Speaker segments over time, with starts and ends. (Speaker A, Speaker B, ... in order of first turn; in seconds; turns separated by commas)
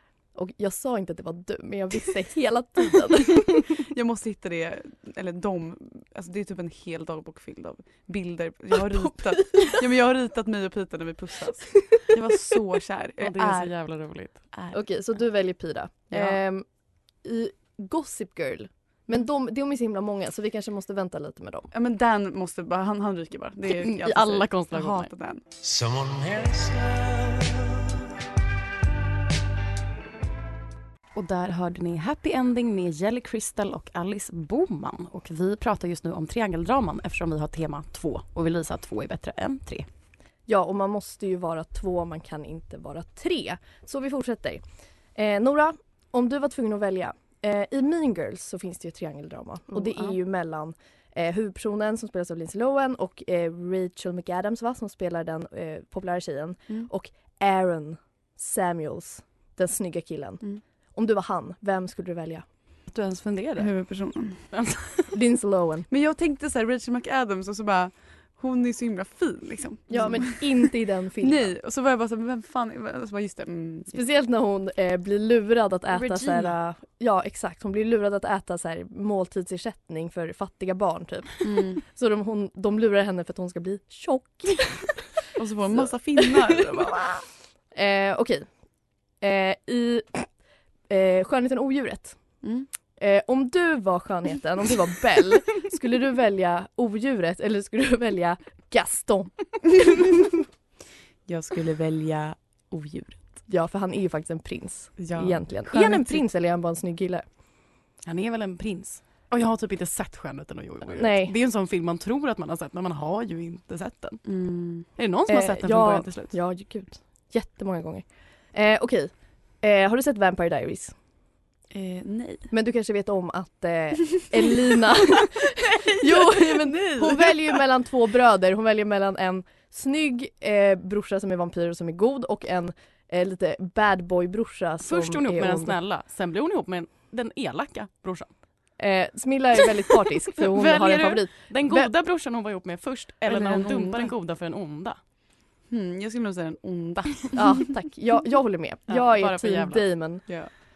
Speaker A: 0.3-3.8, Speaker B: 3.9-13.8, Speaker C: 13.2-14.4, Speaker B: 14.5-14.8, Speaker A: 14.7-16.6, Speaker B: 16.1-16.4, Speaker A: 17.2-21.7, Speaker B: 21.7-25.4, Speaker C: 23.7-25.1, Speaker D: 25.6-28.0, Speaker C: 31.1-39.9, Speaker A: 40.5-44.6, Speaker A: 45.2-62.5, Speaker B: 49.8-50.2, Speaker C: 62.9-63.7, Speaker B: 63.6-64.4, Speaker C: 64.5-65.1, Speaker A: 65.1-65.9, Speaker B: 65.9-74.0, Speaker A: 69.9-71.5, Speaker A: 73.9-85.1, Speaker C: 75.9-76.5, Speaker B: 81.4-81.8, Speaker B: 85.4-87.3, Speaker A: 86.2-87.0, Speaker A: 87.7-88.5, Speaker A: 89.2-90.3, Speaker A: 90.9-92.2, Speaker B: 92.4-92.7, Speaker A: 93.0-100.1, Speaker B: 101.3-103.2, Speaker A: 103.5-107.2, Speaker B: 105.0-106.2, Speaker C: 108.0-114.2, Speaker A: 110.9-111.3, Speaker B: 114.2-114.9, Speaker C: 115.0-116.3, Speaker A: 115.3-121.0, Speaker B: 121.7-122.5, Speaker A: 122.5-135.8, Speaker B: 125.2-127.6, Speaker C: 134.8-138.3, Speaker A: 138.8-141.9, Speaker C: 140.4-145.0, Speaker B: 143.3-144.1, Speaker B: 145.7-147.6, Speaker A: 147.3-150.4, Speaker C: 148.9-149.8